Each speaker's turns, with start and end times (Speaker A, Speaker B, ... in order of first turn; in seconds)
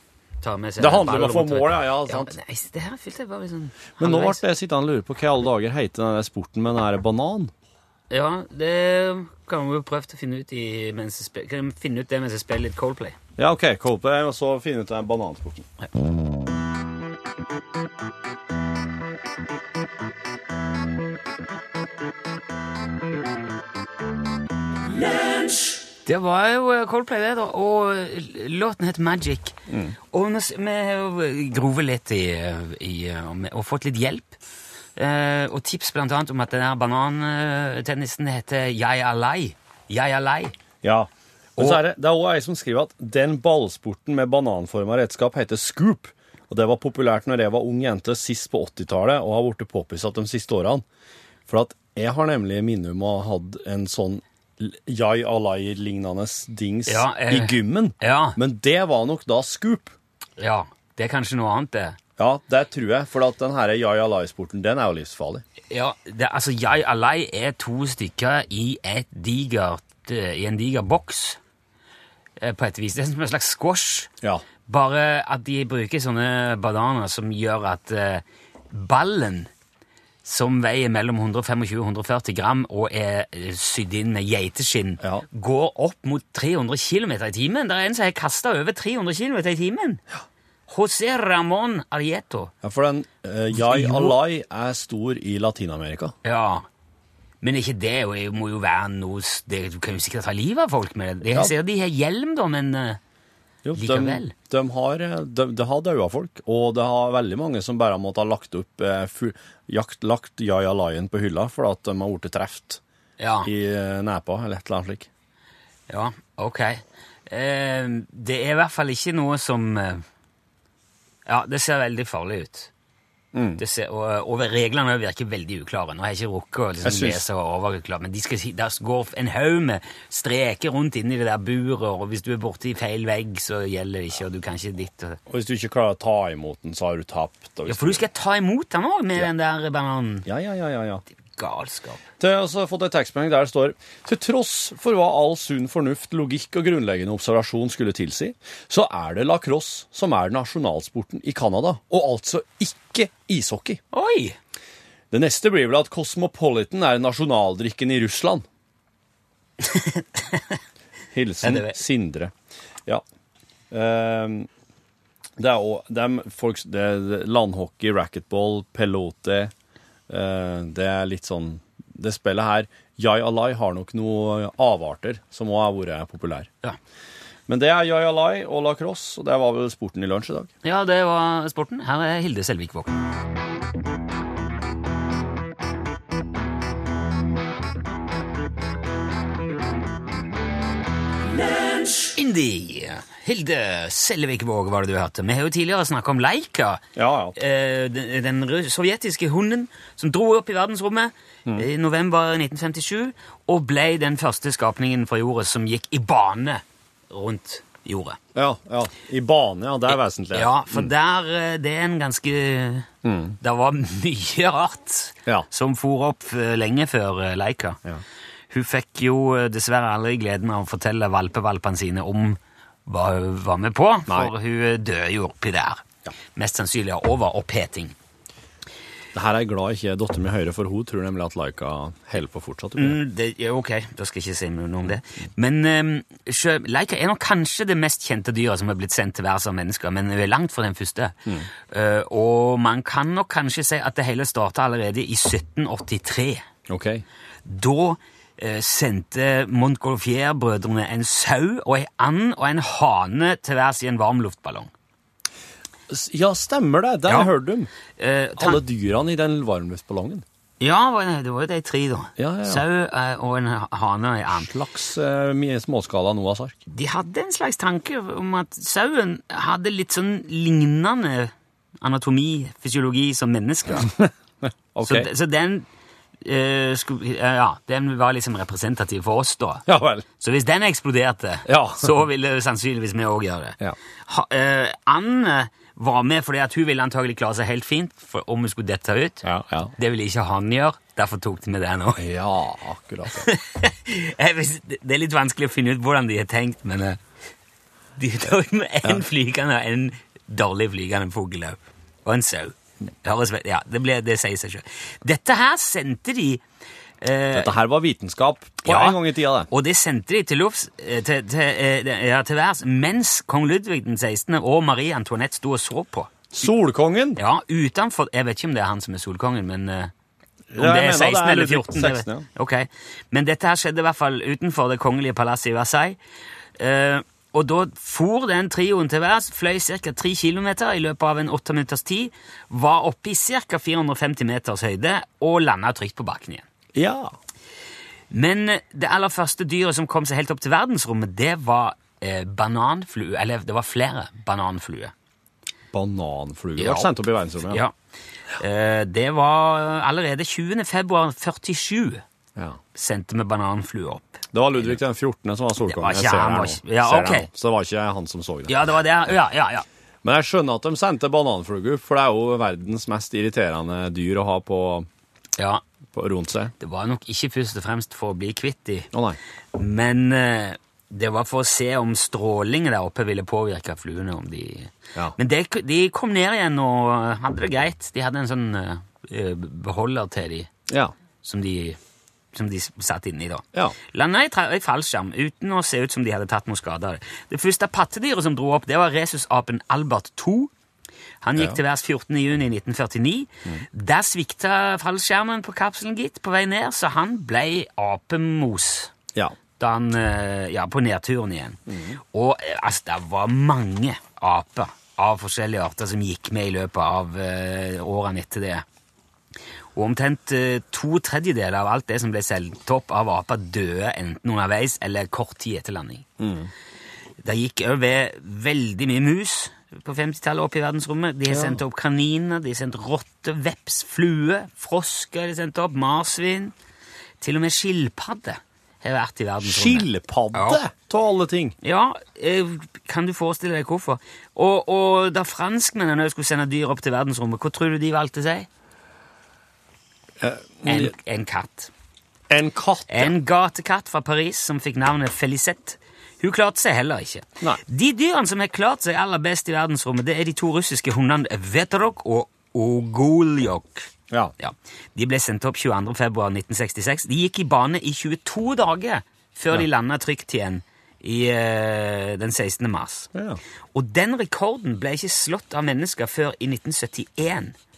Speaker A: 0.4-4.4, 8.1-13.2, 26.1-29.6, 30.1-34.4, 35.0-40.5, 56.9-58.4, 60.4-62.0, 65.7-71.4, 72.4-74.1, 74.7-79.5, 80.2-90.0, 90.7-92.5, 93.5-94.2, 96.2-96.7, 97.4-103.0, 103.8-104.3, 113.2-113.5, 115.9-120.0, 121.3-122.7, 123.6-135.2, 137.7-140.3, 141.4-142.0, 153.9-154.4, 159.6-160.6, 161.4-161.8, 180.6-183.0, 192.1-196.8, 197.3-208.2, 210.3-212.9, 213.4-217.8, 218.5-225.8, 226.3-227.9, 232.8-246.4, 247.4-254.7, 257.1-257.3, 258.0-258.6, 260.6-264.5, 266.7-273.9, 274.8-275.7, 276.2-279.7, 280.2-292.0, 293.1-297.0, 298.0-306.4, 307.0-307.6, 308.6-316.3, 317.2-319.9, 320.6-326.0, 326.6-336.5, 338.1-344.9, 346.6-346.9, 347.5-347.7, 348.4-352.0, 352.8-354.7, 355.7-357.3, 358.5-359.6, 365.4-365.6, 366.6-368.9, 369.5-380.5, 381.2-381.8, 382.3-390.5, 391.2-398.9, 399.6-408.6, 409.8-416.1, 417.2-426.5, 427.2-430.6, 431.6-438.5, 440.6-441.7, 442.9-463.1, 463.7-467.6
Speaker B: 0.8-2.4, 4.0-7.5, 13.4-15.7, 29.7-30.0, 40.8-50.9, 51.5-59.9, 62.2-65.4, 92.6-96.1, 103.6-112.8, 113.5-115.1, 123.3-123.6, 126.8-127.2, 135.3-138.0, 140.3-141.0, 142.2-153.8, 155.1-158.4, 161.1-162.3, 163.7-164.5, 165.4-169.5, 170.1-176.5, 177.5-180.5, 197.0-197.4, 208.3-210.9, 213.0-213.4, 229.1-233.0, 246.7-247.1, 255.9-257.7, 258.4-260.2, 262.2-262.6, 264.3-266.6, 273.8-274.1, 274.7-275.1, 279.7-280.1, 281.5-281.9, 289.2-289.7, 292.0-293.3, 307.3-309.5, 316.3-317.2, 320.5-322.3, 336.8-337.1, 345.7-347.6, 354.3-358.6, 360.0-364.9, 365.9-366.5, 368.9-369.2, 401.7-402.0, 416.2-416.5, 421.3-421.6, 429.4-431.6, 440.2-440.9, 442.3-443.1, 463.1-463.4